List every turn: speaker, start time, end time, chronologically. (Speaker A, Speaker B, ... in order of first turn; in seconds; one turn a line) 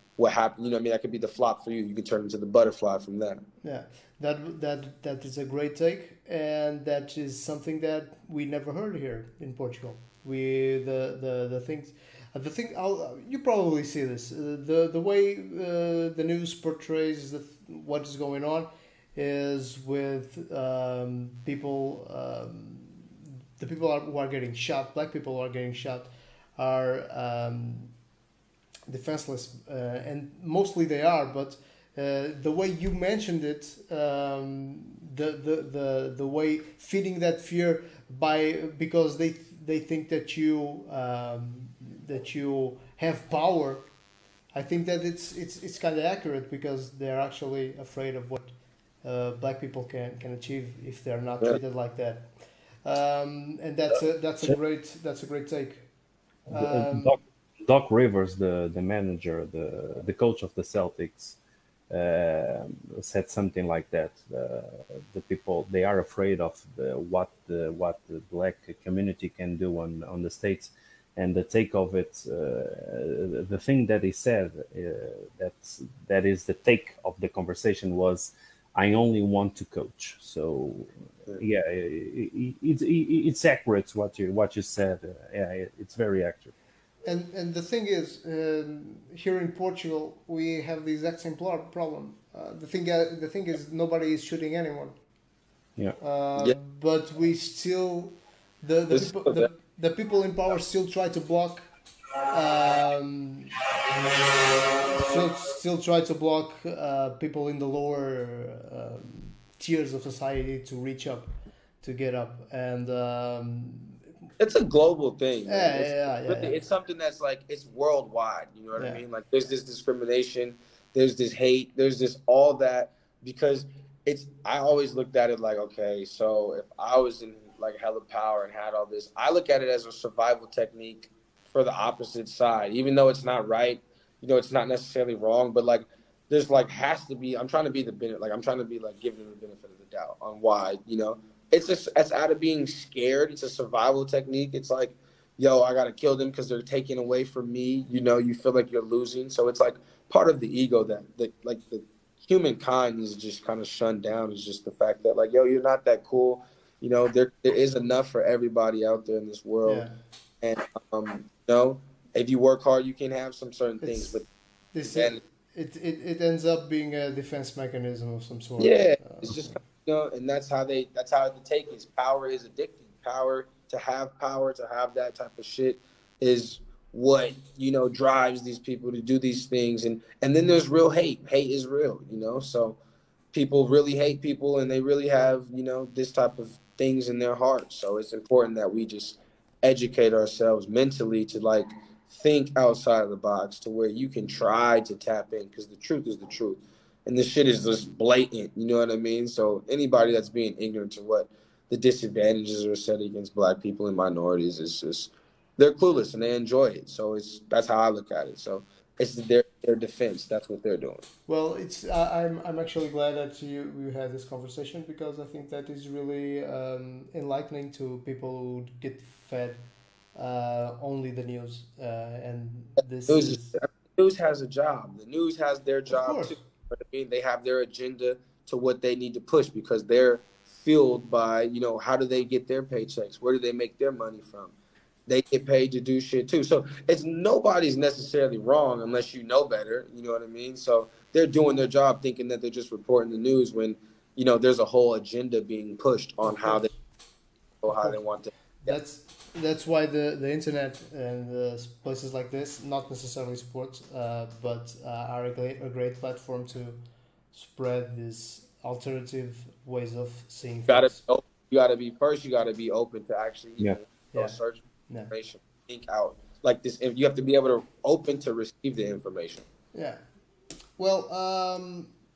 Speaker A: 0.2-3.4
Speaker B: 3.6-27.9
Speaker B: 28.9-43.9
Speaker B: 44.5-48.5
Speaker B: 49.0-52.3
Speaker B: 52.8-55.9
Speaker C: 56.5-61.4
Speaker B: 56.5-57.1
Speaker C: 61.9-86.5
Speaker B: 87.0-95.0
Speaker B: 96.0-101.6
Speaker A: 98.9-99.4
Speaker B: 102.3-103.5
Speaker B: 104.9-111.3
Speaker B: 111.8-114.0
Speaker A: 114.4-159.8
Speaker B: 115.5-116.6
Speaker B: 118.8-119.0
Speaker B: 159.6-160.0
Speaker A: 160.4-164.3
Speaker B: 163.8-164.2
Speaker B: 164.7-169.6
Speaker A: 164.8-165.2
Speaker A: 168.6-182.8
Speaker A: 183.3-211.1
Speaker B: 211.3-219.6
Speaker B: 220.1-223.6
Speaker A: 223.1-234.5
Speaker B: 225.9-226.4
Speaker A: 235.1-246.7
Speaker B: 246.2-246.7
Speaker A: 247.6-248.8
Speaker B: 247.7-248.0
Speaker B: 248.6-256.8
Speaker B: 257.3-261.0
Speaker A: 260.7-269.4
Speaker B: 264.1-264.4
Speaker B: 269.7-270.0
Speaker B: 270.8-271.9